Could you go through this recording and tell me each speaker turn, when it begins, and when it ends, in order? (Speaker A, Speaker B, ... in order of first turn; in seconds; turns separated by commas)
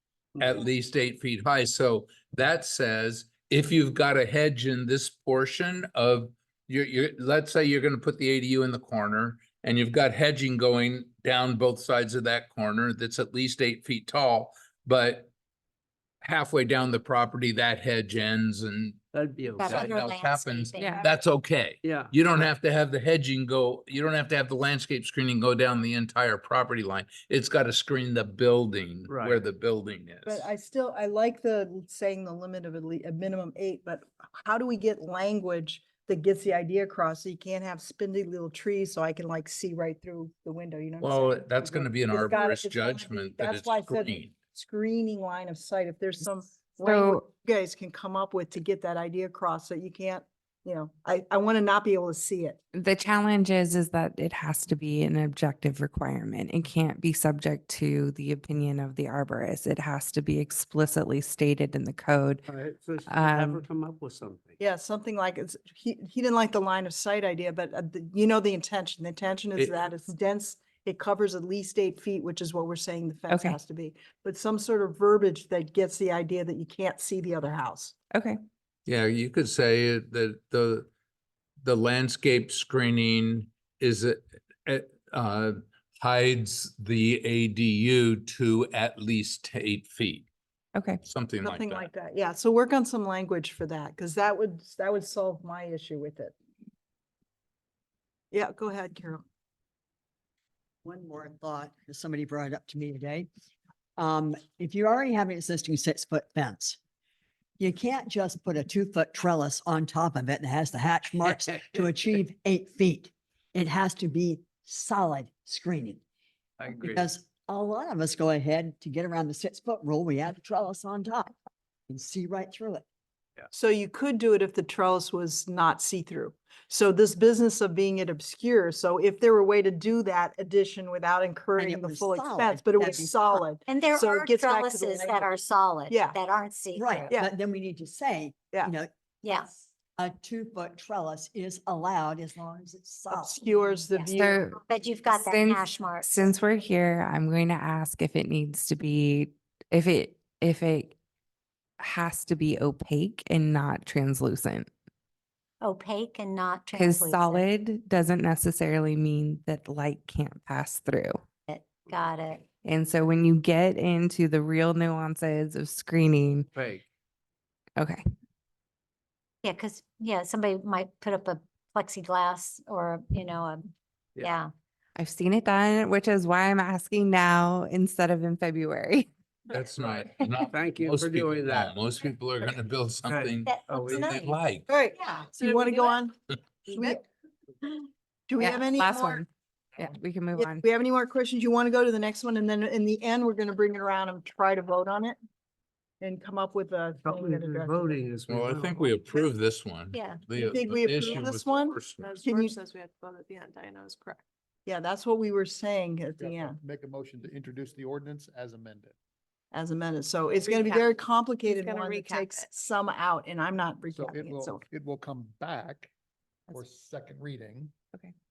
Speaker A: 0.4-15.3, Speaker A: 16.2-19.0, Speaker B: 19.1-20.1, Speaker C: 19.6-21.1, Speaker A: 19.6-30.5, Speaker D: 20.8-21.0, Speaker B: 21.8-22.5, Speaker B: 29.1-29.4, Speaker E: 30.2-52.6, Speaker A: 41.0-44.3, Speaker D: 46.8-47.2, Speaker D: 52.7-62.4, Speaker B: 62.4-64.6, Speaker D: 63.1-63.6, Speaker E: 64.6-77.9, Speaker D: 73.3-73.6, Speaker D: 78.1-78.4, Speaker A: 78.8-80.9, Speaker A: 81.6-90.2, Speaker D: 90.7-91.0, Speaker A: 91.0-91.9, Speaker E: 91.4-96.3, Speaker E: 98.3-99.2, Speaker F: 100.8-103.3, Speaker F: 104.0-106.8, Speaker F: 107.6-116.0, Speaker B: 111.2-111.9, Speaker B: 116.6-117.1, Speaker F: 116.8-121.3, Speaker F: 121.9-122.8, Speaker E: 123.5-135.3, Speaker F: 131.6-133.2, Speaker C: 132.8-137.1, Speaker E: 135.9-136.2, Speaker F: 136.7-138.9, Speaker C: 139.2-139.7, Speaker F: 140.0-143.7, Speaker E: 143.1-144.4, Speaker C: 143.9-146.3, Speaker D: 144.1-150.9, Speaker D: 151.8-154.7, Speaker C: 155.6-157.4, Speaker D: 156.7-161.2, Speaker C: 161.5-162.5, Speaker D: 162.6-166.5, Speaker B: 166.5-166.8, Speaker D: 167.8-168.0, Speaker C: 169.4-174.5, Speaker D: 175.0-179.1, Speaker A: 179.5-184.7, Speaker B: 179.7-181.8, Speaker B: 183.1-184.4, Speaker C: 183.4-185.4, Speaker E: 185.3-186.1, Speaker E: 186.7-187.0, Speaker E: 188.3-189.2, Speaker D: 188.4-189.3, Speaker D: 189.8-190.6, Speaker E: 190.3-195.2, Speaker E: 196.0-198.0, Speaker B: 197.0-199.2, Speaker A: 198.3-202.1, Speaker C: 199.9-200.3, Speaker E: 200.3-202.6, Speaker G: 202.0-204.2, Speaker E: 204.7-206.6, Speaker H: 206.2-208.9, Speaker E: 209.5-214.6, Speaker G: 211.6-212.2, Speaker H: 213.9-215.9, Speaker H: 216.5-217.7